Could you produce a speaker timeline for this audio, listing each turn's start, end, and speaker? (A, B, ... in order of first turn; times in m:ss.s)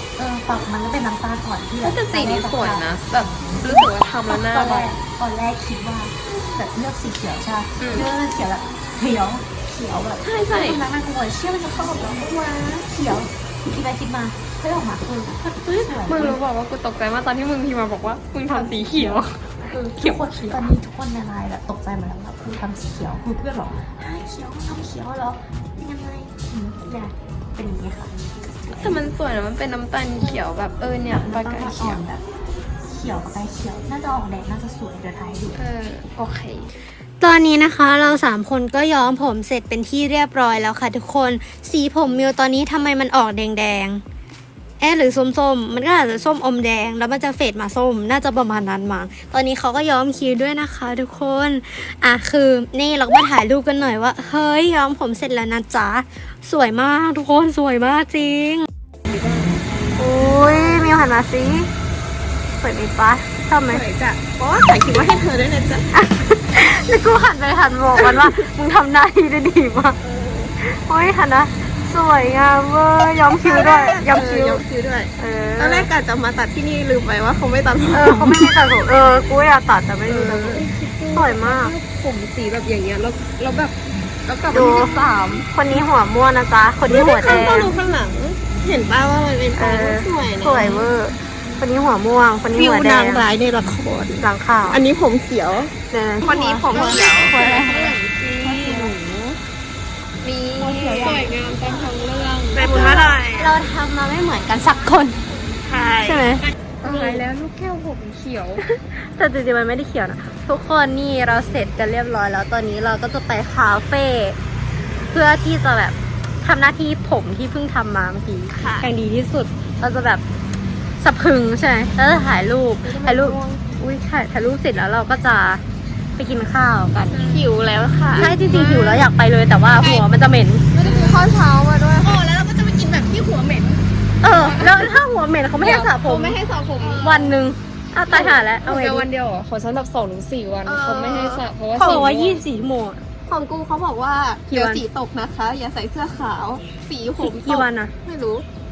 0:00.2-0:02.9 A
0:01.8-0:05.0 B
0:03.5-0:16.4 A
0:07.8-0:08.1 B
0:10.2-0:10.8 B
0:15.7-0:20.6 B
0:18.5-0:28.1 A
0:28.7-0:32.0 B
0:28.7-0:29.0 A
0:31.1-0:32.2 A
0:32.9-0:35.6 A
0:35.6-0:36.7 B
0:37.2-0:44.0 C
0:44.8-0:58.7 C
0:59.1-0:59.6 D
1:00.0-1:01.7 C
1:00.2-1:00.9 D
1:02.6-1:03.8 C
1:03.7-1:05.9 D
1:05.9-1:10.0 C
1:10.0-1:10.5 D
1:10.6-1:14.6 C
1:13.4-1:18.6 D
1:15.2-1:15.9 C
1:17.9-1:21.8 C
1:20.1-1:20.7 D
1:20.7-1:21.8 B
1:21.8-1:23.8 D
1:24.2-1:25.2 D
1:24.5-1:27.7 C
1:26.9-1:30.9 D
1:27.3-1:27.7 B
1:29.6-1:33.3 C
1:32.5-1:35.7 D
1:34.2-1:34.8 C
1:35.9-1:38.9 C
1:36.2-1:39.2 D
1:36.8-1:37.5 B
1:38.4-1:38.9 B
1:40.6-1:41.3 C
1:40.6-1:41.1 B
1:40.6-1:43.5 D
1:42.6-1:45.2 C
1:42.6-1:43.1 A
1:45.7-1:46.2 D
1:46.0-1:47.2 C
1:46.8-1:48.6 B
1:48.6-1:54.4 C
1:55.1-2:00.2 C
1:58.5-1:58.9 D
2:01.0-2:05.6 C
2:02.8-2:03.6 B
2:06.2-2:07.2 C
2:07.1-2:07.5 B
2:07.2-2:09.0 D
2:08.2-2:10.7 C
2:09.8-2:10.0 D
2:10.7-2:14.4 D
2:10.8-2:11.3 B
2:14.2-2:16.4 C
2:15.6-2:17.4 D
2:17.0-2:19.1 C
2:18.1-2:22.4 B
2:20.6-2:22.0 D
2:21.8-2:23.0 C
2:23.3-2:28.5 D
2:24.5-2:24.9 C
2:27.2-2:27.9 C